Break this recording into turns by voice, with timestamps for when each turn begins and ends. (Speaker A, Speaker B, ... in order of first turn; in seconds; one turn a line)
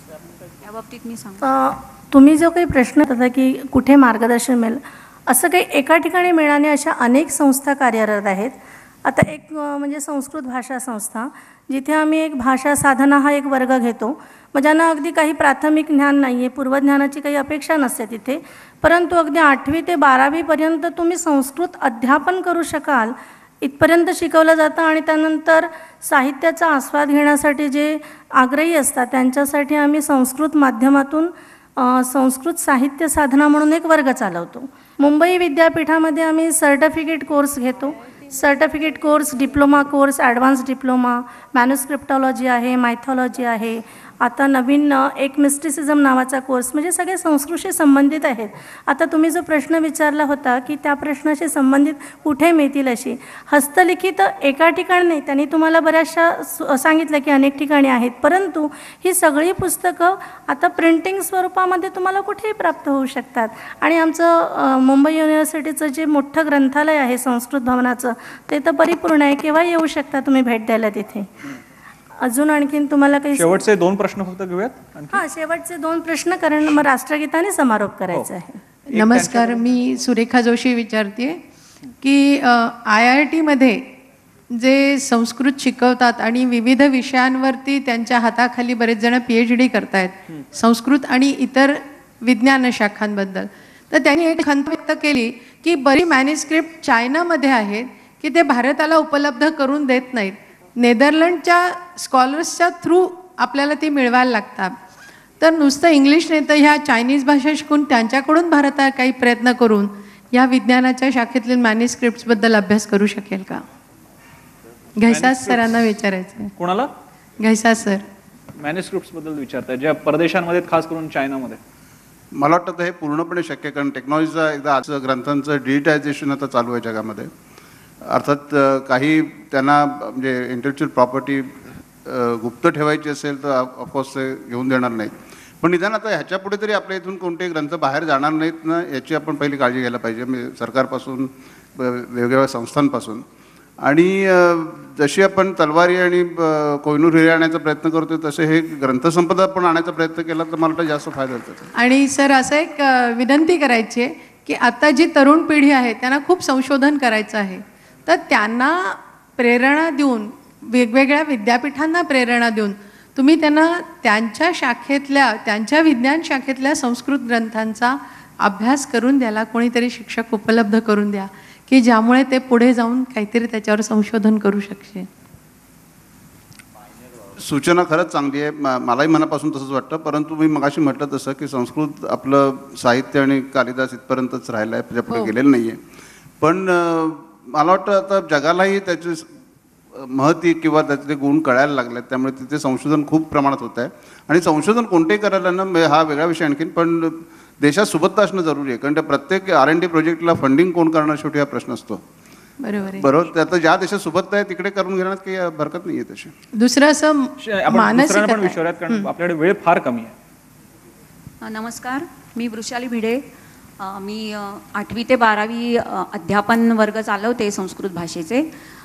Speaker A: 0.6-1.4
Speaker B: 1.4-71.3
Speaker B: 72.2-73.6
Speaker C: 73.3-75.2
Speaker B: 75.1-78.6
Speaker D: 78.9-81.4
Speaker C: 78.9-79.6
Speaker D: 82.0-83.9
Speaker D: 84.5-104.8
Speaker D: 105.4-113.6
Speaker D: 115.0-116.5
Speaker C: 115.0-115.9
Speaker C: 116.5-116.9
Speaker D: 117.4-118.0
Speaker C: 118.6-121.6
Speaker E: 122.3-127.3
Speaker E: 128.0-143.2
Speaker E: 143.8-151.7
Speaker D: 151.7-175.1
Speaker E: 177.4-185.8
Speaker E: 186.4-189.2
Speaker E: 189.9-202.0
Speaker D: 202.6-203.1
Speaker E: 202.9-206.3
Speaker D: 206.5-209.1
Speaker C: 207.4-210.1
Speaker A: 211.4-213.2
Speaker A: 213.8-218.5